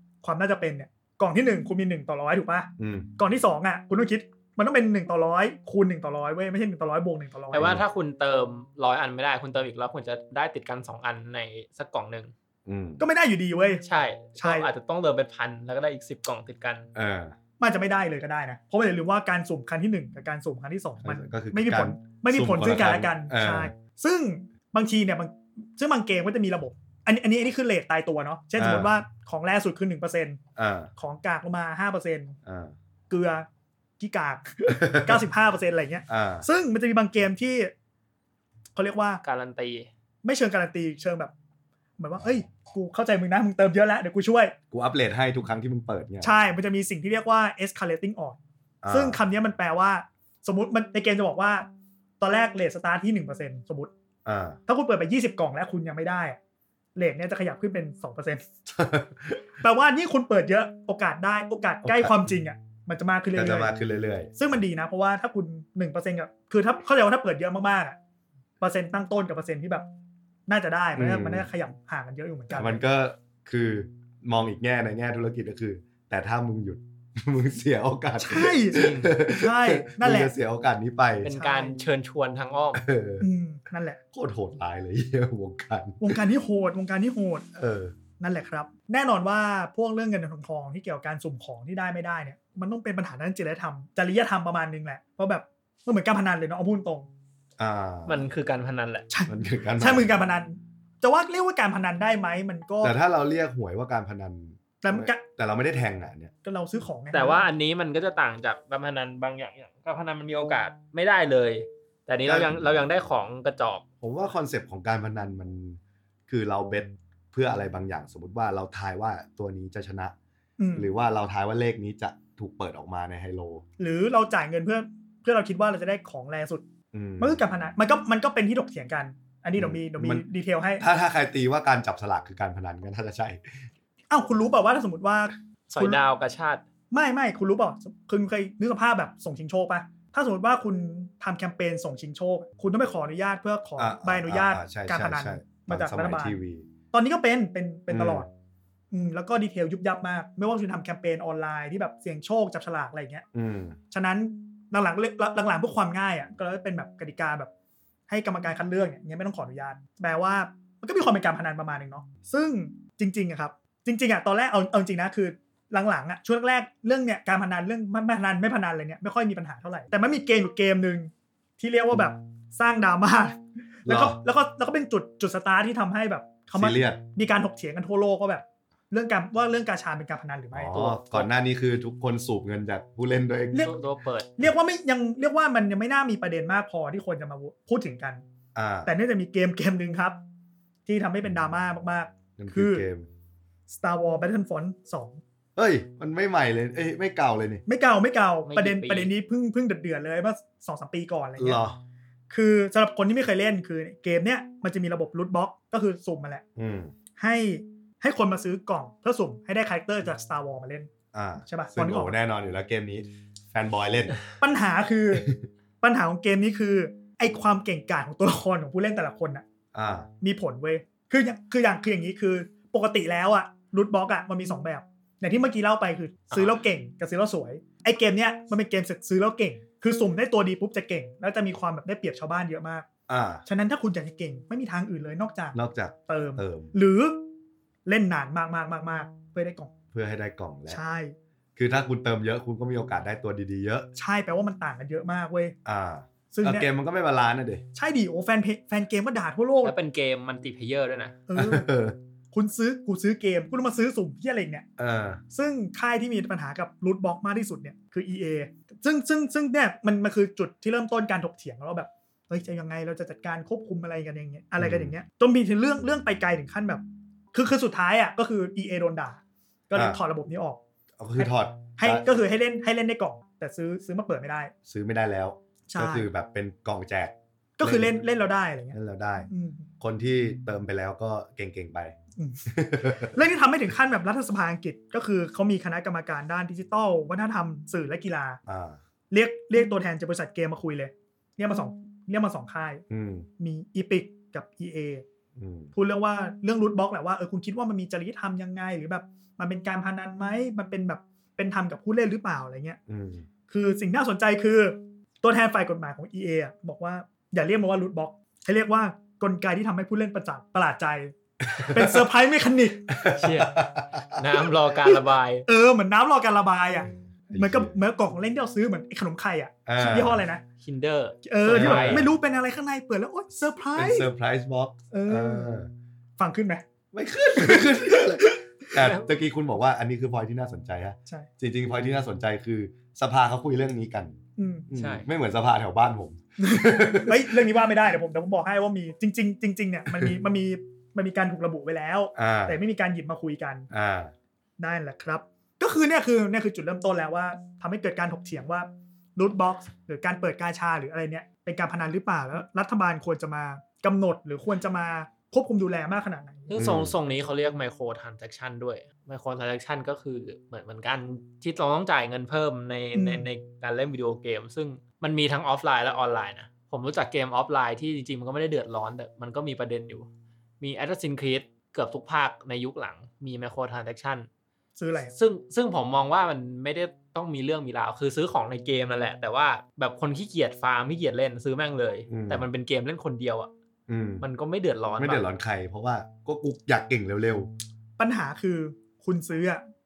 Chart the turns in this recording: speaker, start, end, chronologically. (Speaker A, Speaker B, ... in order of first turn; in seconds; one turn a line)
Speaker A: 0.2-7.7
Speaker B: 2.8-3.1
Speaker C: 7.5-12.3
Speaker B: 7.6-7.8
Speaker B: 12.7-13.0
Speaker A: 13.0-13.8
Speaker C: 13.8-16.9
Speaker A: 14.4-14.7
Speaker B: 16.9-17.3
Speaker A: 17.6-30.4
Speaker B: 21.0-23.7
Speaker B: 28.6-28.9
Speaker B: 30.6-30.9
Speaker A: 31.0-32.4
Speaker B: 32.5-32.7
Speaker A: 33.1-33.5
Speaker A: 34.0-37.7
Speaker B: 34.7-35.2
Speaker B: 36.1-36.5
Speaker A: 38.8-39.2
Speaker C: 39.2-39.9
Speaker A: 40.2-41.3
Speaker A: 42.0-44.5
Speaker B: 44.7-46.3
Speaker A: 46.2-48.4
Speaker B: 48.8-49.2
Speaker A: 48.9-51.7
Speaker A: 52.2-53.9
Speaker B: 54.2-54.6
Speaker A: 54.7-56.4
Speaker A: 57.0-58.4
Speaker B: 58.7-59.4
Speaker A: 59.6-63.7
Speaker B: 61.8-62.3
Speaker B: 63.3-64.3
Speaker A: 64.4-68.0
Speaker A: 68.6-69.8
Speaker A: 70.5-72.8
Speaker B: 70.9-71.5
Speaker B: 72.5-81.3
Speaker A: 78.2-80.3
Speaker C: 78.7-79.1
Speaker C: 81.2-82.8
Speaker A: 81.3-81.8
Speaker B: 82.7-83.2
Speaker A: 83.2-84.0
Speaker B: 84.1-86.2
Speaker A: 86.0-87.5
Speaker B: 87.5-87.9
Speaker A: 88.2-97.1
Speaker B: 97.6-98.3
Speaker C: 98.1-99.1
Speaker A: 99.1-102.9
Speaker B: 99.3-100.1
Speaker B: 102.8-106.3
Speaker A: 104.8-105.2
Speaker A: 106.4-107.5
Speaker C: 107.1-113.8
Speaker B: 112.2-112.6
Speaker B: 114.0-120.1
Speaker A: 120.6-120.9
Speaker B: 120.7-123.6
Speaker A: 123.8-126.6
Speaker B: 126.9-127.4
Speaker A: 127.2-130.8
Speaker B: 129.6-130.2
Speaker B: 130.8-133.7
Speaker A: 134.1-136.0
Speaker C: 135.7-136.6
Speaker A: 136.9-146.3
Speaker B: 143.8-146.7
Speaker A: 146.9-148.3
Speaker B: 147.9-148.3
Speaker A: 148.9-153.2
Speaker B: 153.3-153.8
Speaker A: 153.9-157.5
Speaker A: 158.1-181.3
Speaker B: 173.8-174.2
Speaker B: 176.5-177.0
Speaker B: 180.5-183.7
Speaker C: 183.5-184.3
Speaker A: 184.4-188.2
Speaker B: 188.5-188.9
Speaker A: 188.8-190.2
Speaker A: 190.8-192.8
Speaker B: 192.4-193.1
Speaker A: 193.7-195.2
Speaker B: 195.6-197.6
Speaker A: 197.7-201.6
Speaker C: 198.4-199.1
Speaker B: 201.4-201.8
Speaker A: 202.3-206.4
Speaker B: 206.6-206.9
Speaker A: 207.2-210.9
Speaker B: 211.1-214.2
Speaker A: 211.5-212.1
Speaker A: 214.4-215.3
Speaker A: 215.8-219.4
Speaker B: 219.7-220.1
Speaker A: 220.2-232.8
Speaker B: 233.1-233.4
Speaker A: 233.5-235.6
Speaker B: 235.5-236.7
Speaker A: 236.1-237.2
Speaker A: 237.8-239.7
Speaker B: 239.9-240.8
Speaker A: 240.7-241.1
Speaker B: 241.6-243.9
Speaker A: 243.9-245.5
Speaker B: 245.6-247.6
Speaker A: 246.3-246.7
Speaker A: 247.7-249.7
Speaker C: 249.6-251.2
Speaker A: 251.3-251.7
Speaker B: 251.3-251.9
Speaker A: 252.3-254.7
Speaker B: 254.8-255.2
Speaker A: 255.3-266.8
Speaker B: 264.6-264.9
Speaker A: 267.3-270.6
Speaker B: 269.7-270.0
Speaker B: 271.0-272.0
Speaker A: 271.2-274.5
Speaker B: 274.7-277.9
Speaker A: 275.7-276.1
Speaker A: 277.6-278.8
Speaker B: 278.7-279.3
Speaker A: 279.3-279.7
Speaker B: 279.8-281.9
Speaker A: 282.1-282.4
Speaker B: 282.5-283.1
Speaker A: 283.0-288.4
Speaker B: 288.4-288.8
Speaker A: 289.1-292.8
Speaker B: 292.9-293.3
Speaker A: 293.4-295.0
Speaker B: 295.4-295.7
Speaker A: 295.7-302.8
Speaker B: 302.9-303.2
Speaker A: 303.5-312.9
Speaker B: 311.4-312.0
Speaker B: 312.9-314.2
Speaker C: 313.1-313.6
Speaker C: 314.1-315.4
Speaker A: 315.5-320.4
Speaker B: 317.3-317.7
Speaker B: 319.6-320.2
Speaker C: 320.6-322.0
Speaker A: 321.2-324.1
Speaker B: 321.4-322.1
Speaker B: 323.8-325.7
Speaker A: 324.9-325.5
Speaker A: 326.2-326.6
Speaker B: 326.9-334.2
Speaker A: 327.3-328.8
Speaker C: 328.8-329.1
Speaker A: 334.4-334.7
Speaker B: 334.7-337.4
Speaker C: 334.7-335.1
Speaker A: 336.4-343.7
Speaker B: 342.1-342.6
Speaker B: 343.7-344.1
Speaker A: 344.6-356.5
Speaker C: 356.5-370.1
Speaker B: 356.5-356.9
Speaker A: 362.9-363.3
Speaker C: 370.6-374.3
Speaker A: 374.8-375.1
Speaker C: 375.1-383.5
Speaker B: 382.1-382.4
Speaker B: 383.9-384.2
Speaker C: 384.2-385.2
Speaker B: 385.0-387.5
Speaker A: 388.0-389.6